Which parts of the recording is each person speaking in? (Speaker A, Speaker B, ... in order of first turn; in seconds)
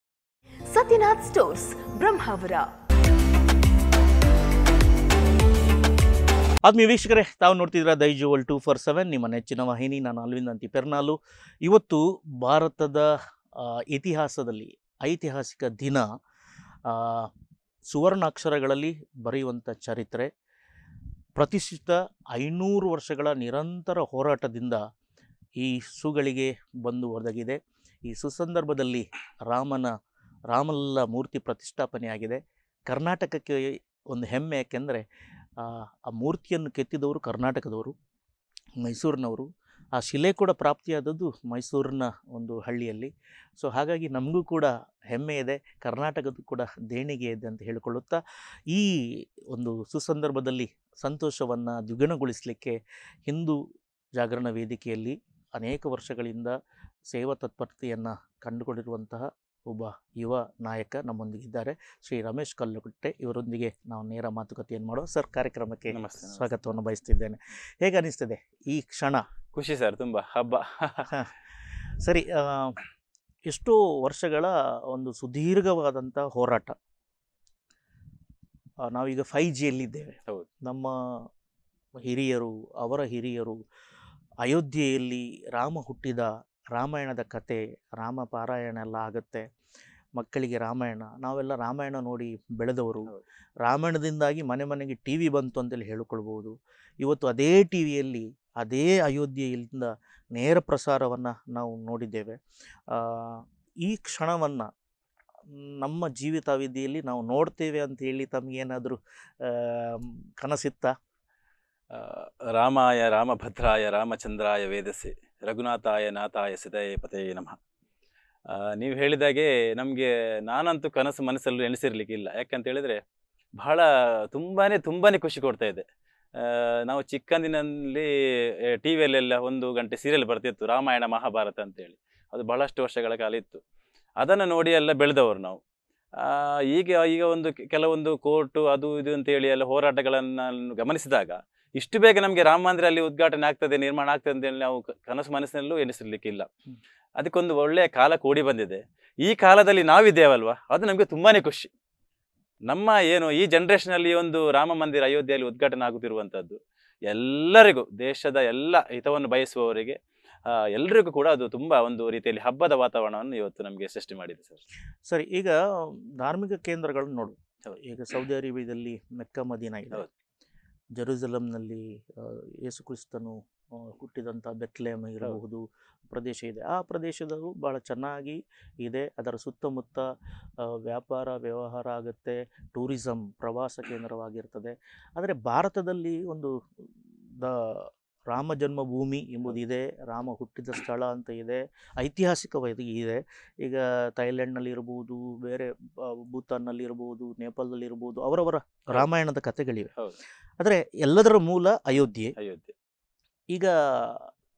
Speaker A: 0.7-2.7
Speaker B: 6.7-16.1, 16.9-17.3, 17.9-20.3, 21.4-24.8, 25.6-29.9, 30.5-35.0, 35.6-38.0, 38.8-49.0, 49.5-53.6, 54.2-56.5, 57.1-69.3, 72.0-72.8, 73.5-76.8, 78.8-81.3, 82.0-83.6, 84.4-89.5, 90.2-93.1, 93.6-104.7, 105.5-110.9, 165.1-170.1, 170.9-180.1, 180.6-186.5, 187.4-199.9, 200.6-202.3, 203.5-204.3
Speaker C: 65.9-66.5, 69.5-71.1, 111.9-117.6, 118.5-123.0, 123.6-125.8, 126.4-128.1, 128.7-133.6, 134.2-135.6, 136.2-146.5, 147.2-151.7, 152.7-164.6, 202.4-202.7